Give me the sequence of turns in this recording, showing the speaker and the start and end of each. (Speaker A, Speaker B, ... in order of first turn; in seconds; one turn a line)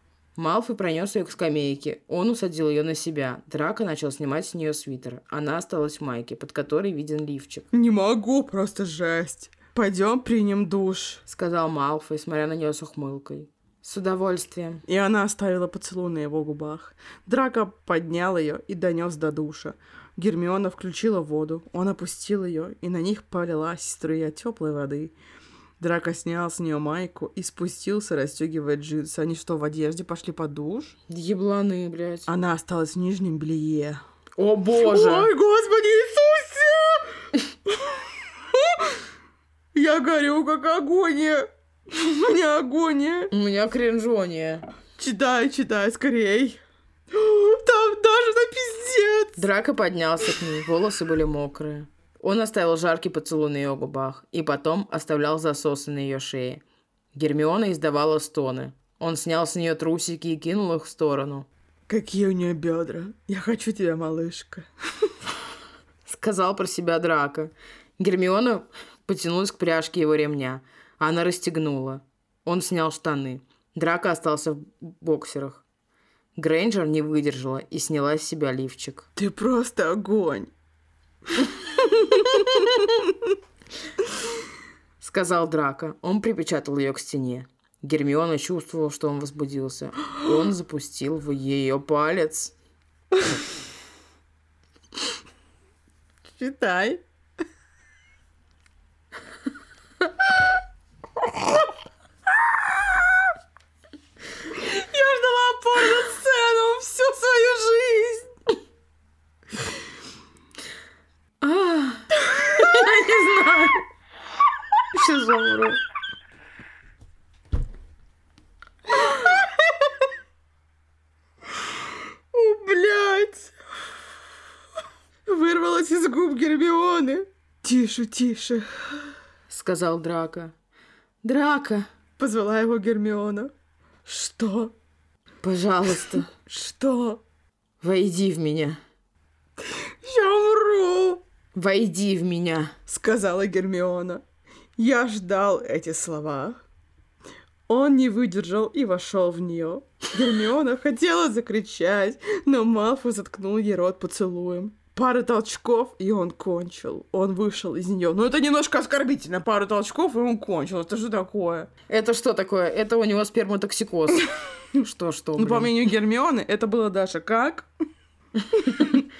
Speaker A: 0.4-7.7
Speaker B: 7.7-11.2
Speaker A: 11.3-14.8
Speaker B: 14.9-25.1
Speaker B: 25.8-30.9
Speaker A: 31.1-32.3
Speaker B: 32.3-34.0
Speaker A: 34.4-35.3
Speaker B: 34.8-37.1
Speaker B: 37.7-38.0
Speaker B: 38.5-38.9
Speaker B: 39.7-43.3
Speaker A: 43.3-44.6
Speaker B: 45.0-46.6
Speaker B: 47.1-49.4
Speaker A: 49.4-56.6
Speaker A: 57.1-61.5
Speaker B: 61.9-64.7
Speaker A: 66.1-75.6
Speaker A: 76.4-79.1
Speaker B: 79.2-80.5
Speaker B: 81.3-83.1
Speaker A: 85.0-92.5
Speaker B: 96.4-97.0
Speaker B: 104.5-108.3
Speaker A: 111.4-113.9
Speaker A: 114.9-115.8
Speaker B: 119.0-119.5
Speaker B: 122.3-123.5
Speaker B: 125.3-128.7
Speaker A: 129.5-130.5
Speaker A: 131.2-131.9
Speaker B: 132.2-133.5
Speaker B: 134.1-134.7
Speaker A: 135.4-136.3
Speaker B: 136.3-137.2
Speaker A: 137.8-138.8
Speaker B: 140.0-141.2
Speaker A: 141.5-142.7
Speaker B: 142.9-144.2
Speaker B: 144.8-146.6
Speaker B: 147.7-161.7
Speaker A: 161.9-165.7
Speaker B: 165.4-167.7
Speaker B: 168.5-169.0